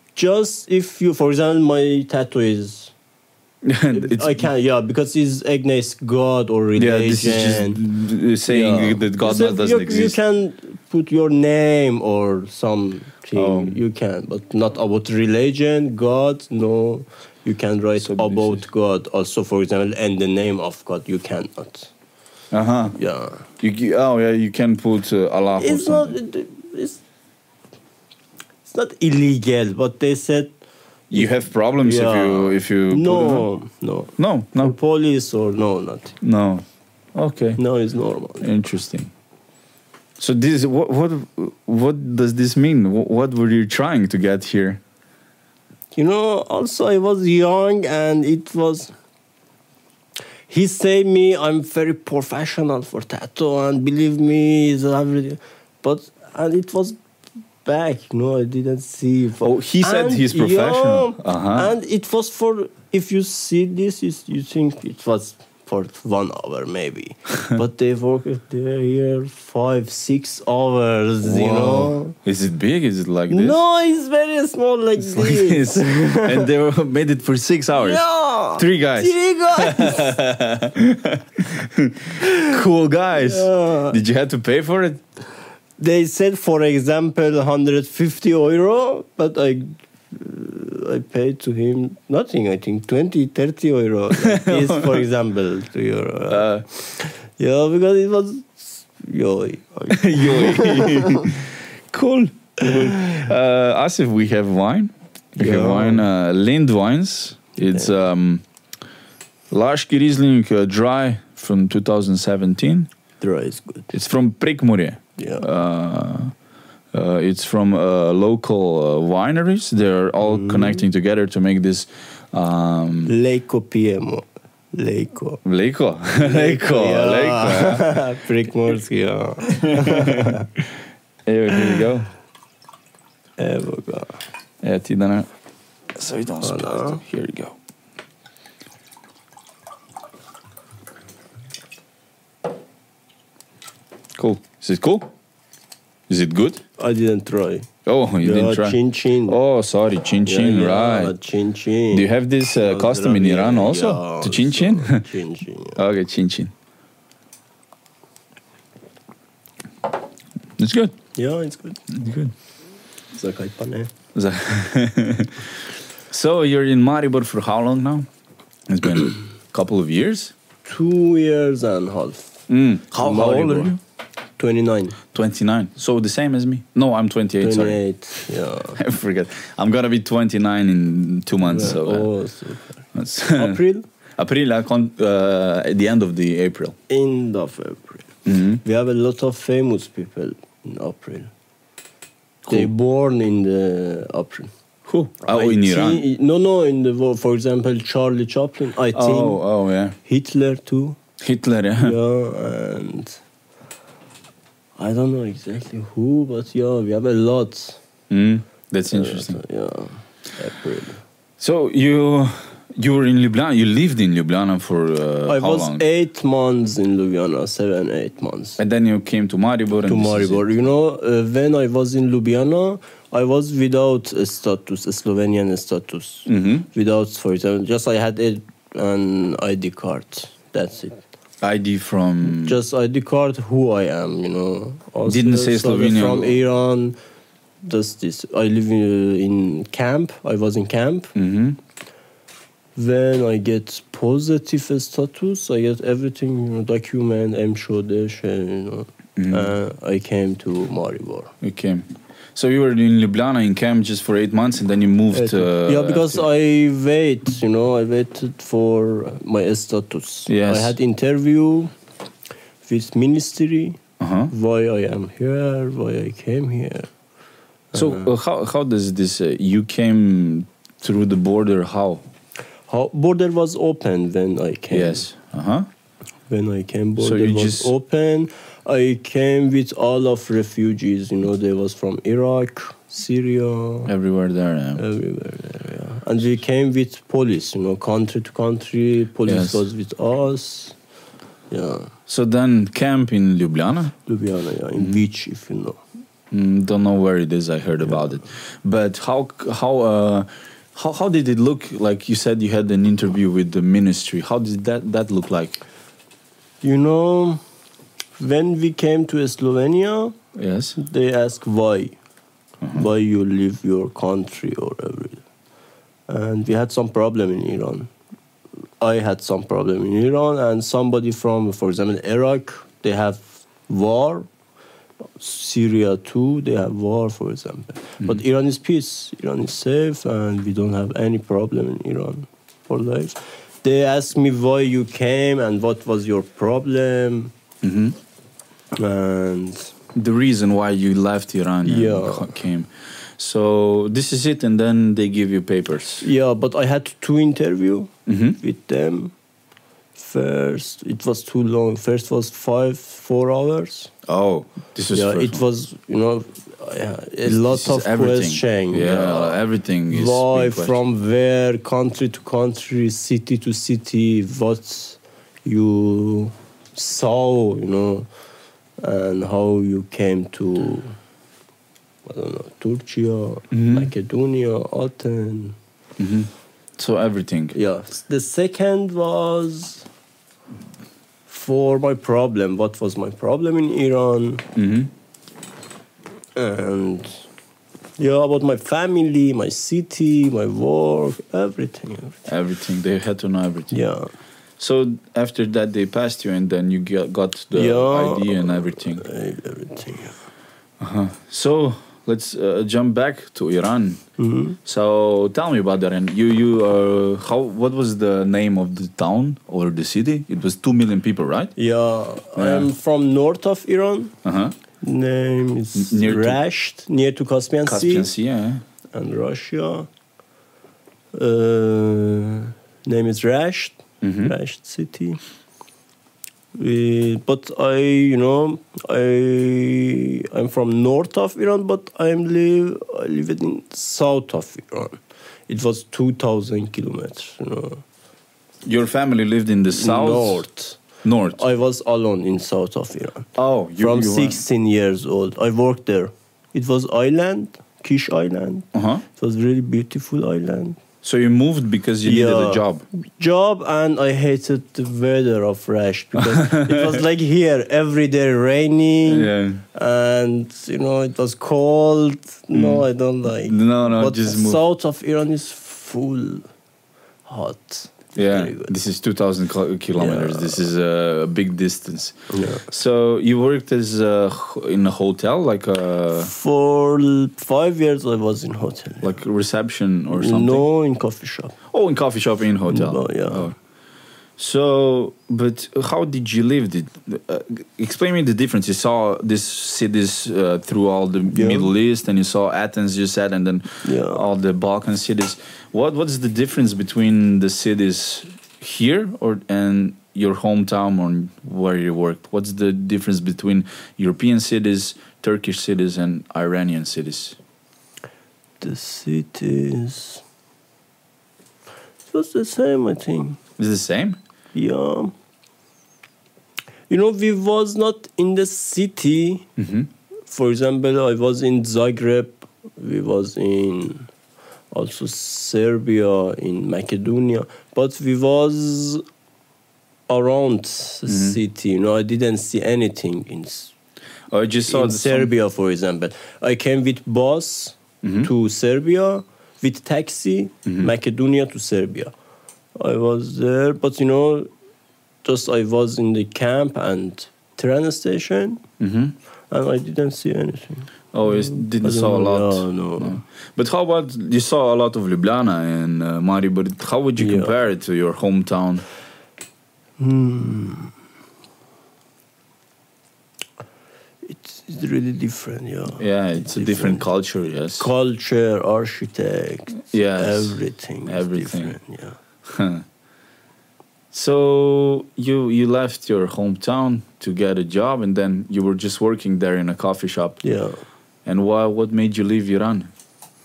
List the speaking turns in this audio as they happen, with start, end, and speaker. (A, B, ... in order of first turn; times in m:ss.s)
0:00.2-0:02.9 A
0:03.6-0:04.5 B
0:03.9-0:07.8 A
0:06.8-0:10.2 B
0:08.5-0:21.9 A
0:13.4-0:13.8 B
0:18.0-0:18.6 B
0:22.5-0:23.0 B
0:23.0-0:23.5 A
0:23.6-0:26.2 B
0:25.6-0:27.0 A
0:28.6-0:30.6 A
0:31.1-0:33.5 B
0:31.8-0:36.2 A
0:34.2-0:34.7 B
0:36.2-0:36.6 B
0:37.2-0:37.6 B
0:37.6-0:38.5 A
0:38.4-0:39.1 B
0:40.2-0:44.8 B
0:46.0-0:48.9 A
0:50.5-0:57.0 A
0:57.6-1:12.2 A
0:59.4-1:01.7 B
1:11.2-1:13.6 B
1:13.3-1:16.5 A
1:15.0-1:18.0 B
1:17.8-1:20.2 A
1:18.6-1:25.0 B
1:23.1-1:24.0 A
1:25.8-1:41.4 A
1:34.2-1:35.0 B
1:36.3-1:36.6 B
1:39.9-1:48.4 B
1:45.4-1:46.1 A
1:49.5-1:52.9 B
1:53.2-1:53.9 A
1:53.9-1:56.3 B
1:55.2-1:55.5 A
1:56.9-2:03.2 B
2:00.2-2:00.8 A
2:03.1-2:05.4 A
2:05.4-2:08.0 B
2:06.2-2:10.5 A
2:09.5-2:10.4 B
2:11.3-2:12.1 B
2:13.4-2:14.2 A
2:14.6-2:15.3 B
2:16.0-2:17.6 B
2:16.4-2:17.0 A
2:24.2-2:25.1 B
2:26.1-2:26.6 B
2:26.8-2:27.7 A
2:27.9-2:31.1 B
2:28.2-2:29.4 A
2:30.2-2:35.8 A
2:31.9-2:35.0 B
2:35.8-2:36.5 B
2:40.6-2:40.9 B
2:41.2-2:41.8 A
2:41.9-2:42.3 B
2:43.1-2:43.9 A
2:44.1-2:45.5 B
2:46.1-2:48.1 B
2:48.7-2:50.3 B
2:50.6-2:52.4 A
2:52.5-2:53.8 B
2:53.0-2:53.8 A
2:54.4-2:55.0 A
2:55.1-2:57.8 B
2:57.4-2:58.8 A
2:58.7-3:02.1 B
3:01.4-3:03.9 A
3:02.9-3:03.6 B
3:04.2-3:06.8 B
3:06.9-3:11.3 A
3:08.3-3:08.6 B
3:12.5-3:14.5 A
3:14.9-3:16.0 B
3:15.2-3:19.4 A
3:18.9-3:20.0 B
3:20.0-3:21.0 A
3:21.2-3:22.0 B
3:21.8-3:23.2 A
3:24.8-3:27.8 A
3:28.1-3:29.4 B
3:28.9-3:31.0 A
3:31.4-3:35.8 B
3:35.3-3:38.6 A
3:38.6-3:40.7 B
3:39.9-3:51.0 A
3:46.3-3:46.7 B
3:51.4-3:52.6 B
3:52.2-3:57.0 A
3:55.1-3:56.4 B
3:57.6-4:01.1 A
4:01.2-4:01.6 B
4:02.8-4:11.4 A
4:09.2-4:09.5 B
4:11.4-4:16.3 B
4:15.1-4:21.7 A
4:20.3-4:20.8 B
4:22.6-4:23.8 A
4:24.0-4:24.3 B
4:24.3-4:26.9 A
4:27.7-4:28.1 A
4:27.7-4:32.0 B
4:32.7-4:35.1 A
4:34.7-4:35.7 B
4:36.3-4:43.9 A
4:37.0-4:37.7 B
4:43.9-4:44.8 B
4:44.8-4:50.8 A
4:49.3-4:49.6 B
4:51.5-4:51.9 A
4:52.1-4:54.0 B
4:54.1-4:55.8 A
4:56.3-5:05.6 B
5:06.6-5:07.4 A
5:08.2-5:10.2 A
5:10.4-5:10.8 B
5:10.8-5:12.0 A
5:12.7-5:15.2 A
5:16.1-5:17.9 A
5:18.8-5:24.3 A
5:25.2-5:37.3 A
5:37.6-5:38.0 B
5:38.7-5:39.7 A
5:39.9-5:46.0 B
5:41.6-5:42.4 A
5:46.0-5:49.1 A
5:48.1-5:48.4 B
5:50.0-5:53.9 A
5:54.1-5:55.4 B
5:54.9-5:59.4 A
5:57.2-6:00.8 B
5:59.9-6:08.1 A
6:08.8-6:11.0 A
6:12.1-6:15.6 A
6:13.5-6:13.9 B
6:16.0-6:17.6 B
6:17.5-6:19.9 A
6:21.3-6:24.4 A
6:24.6-6:24.9 B
6:26.4-6:27.2 A
6:28.0-6:32.3 A
6:32.3-6:33.8 B
6:33.7-6:34.1 A
6:34.6-6:39.1 B
6:37.5-6:40.2 A
6:40.8-6:44.0 B
6:44.2-6:44.6 A
6:44.6-6:51.5 B
6:51.6-6:54.2 A
6:52.4-6:52.7 B
6:54.2-6:54.6 B
6:54.8-6:58.1 A
6:55.8-6:56.4 B
6:57.7-6:58.6 B
6:58.9-6:59.9 A
7:01.1-7:05.2 A
7:04.0-7:04.3 B
7:06.6-7:17.8 A
7:18.6-7:20.5 B
7:19.7-7:20.8 A
7:21.0-7:21.4 B
7:21.3-7:30.8 A
7:23.4-7:24.4 B
7:28.7-7:29.0 B
7:31.0-7:32.8 B
7:32.0-7:46.5 A
7:36.2-7:37.0 B
7:39.0-7:39.6 B
7:42.5-7:44.6 B
7:47.3-7:48.7 A
7:48.2-7:56.3 B
7:50.0-7:50.6 A
7:52.3-7:52.7 A
7:56.1-7:59.1 A
7:59.0-8:00.7 B
8:00.1-8:01.6 A
8:01.7-8:03.5 B
8:02.7-8:03.5 A
8:04.4-8:27.4 B
8:11.3-8:11.7 A
8:13.8-8:14.2 A
8:28.6-8:30.2 A
8:32.1-8:33.4 A
8:33.6-8:34.2 B
8:34.5-8:35.1 A
8:36.9-8:39.5 A
8:39.6-8:39.9 B
8:40.3-8:44.1 A
8:44.7-8:49.0 A
8:50.1-8:53.7 A
8:51.1-8:51.4 B
8:54.3-8:55.3 B
8:54.7-9:02.1 A
8:58.0-8:58.3 B
9:02.8-9:04.5 A
9:05.2-9:08.6 A
9:08.8-9:09.2 B
9:09.5-9:13.2 A
9:11.1-9:18.8 B
9:17.2-9:17.5 A
9:20.0-9:20.9 A
9:24.2-9:27.0 A
9:26.0-9:27.9 B
9:27.8-9:32.2 A
9:29.9-9:31.8 B
9:32.4-9:32.8 B
9:34.1-9:40.4 B
9:40.4-9:40.8 A
9:41.2-9:42.9 B